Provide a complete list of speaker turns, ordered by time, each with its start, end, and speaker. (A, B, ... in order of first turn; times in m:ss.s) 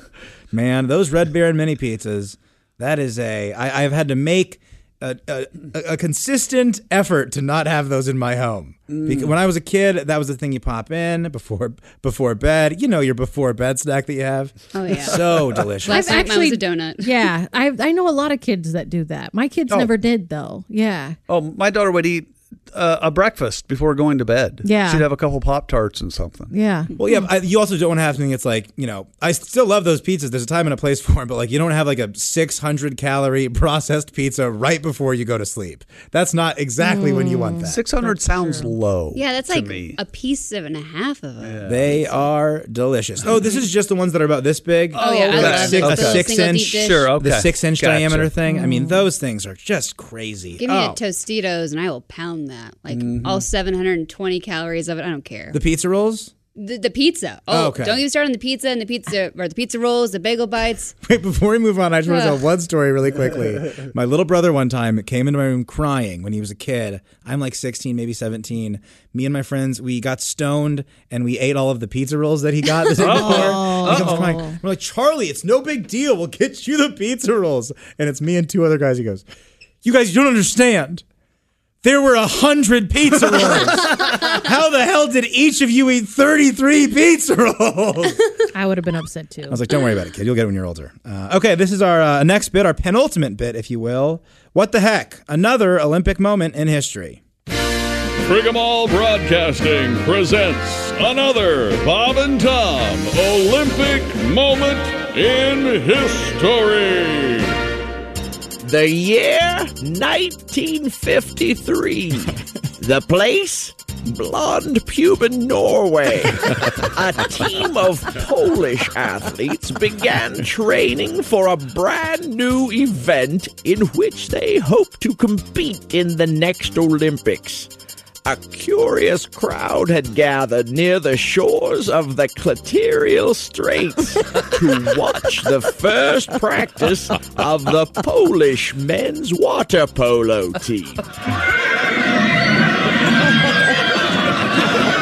0:00.5-0:16.3 A
0:08.9-0:09.3 B
0:14.7-0:17.3 C
0:15.9-0:21.2 D
0:21.3-0:26.5 B
0:24.6-0:25.1 D
0:26.5-0:27.0 D
0:27.0-0:37.8 A
0:36.8-0:38.7 D
0:37.6-0:40.0 B
0:39.1-0:41.9 C
0:41.4-0:42.0 B
0:41.6-0:51.0 A
0:44.9-0:48.3 B
0:45.0-0:47.1 C
0:48.5-0:49.0 D
0:50.6-0:55.6 C
0:52.9-0:53.4 B
0:55.5-0:56.3 A
0:56.6-1:00.9 C
0:57.5-0:58.0 A
1:01.0-1:19.2 A
1:02.0-1:02.4 C
1:13.0-1:14.3 B
1:13.0-1:14.6 D
1:19.8-1:21.0 A
1:21.8-1:28.2 A
1:28.5-1:29.6 D
1:29.5-1:37.2 A
1:38.2-1:47.6 E
1:48.6-2:07.7 F
2:08.2-2:21.0 F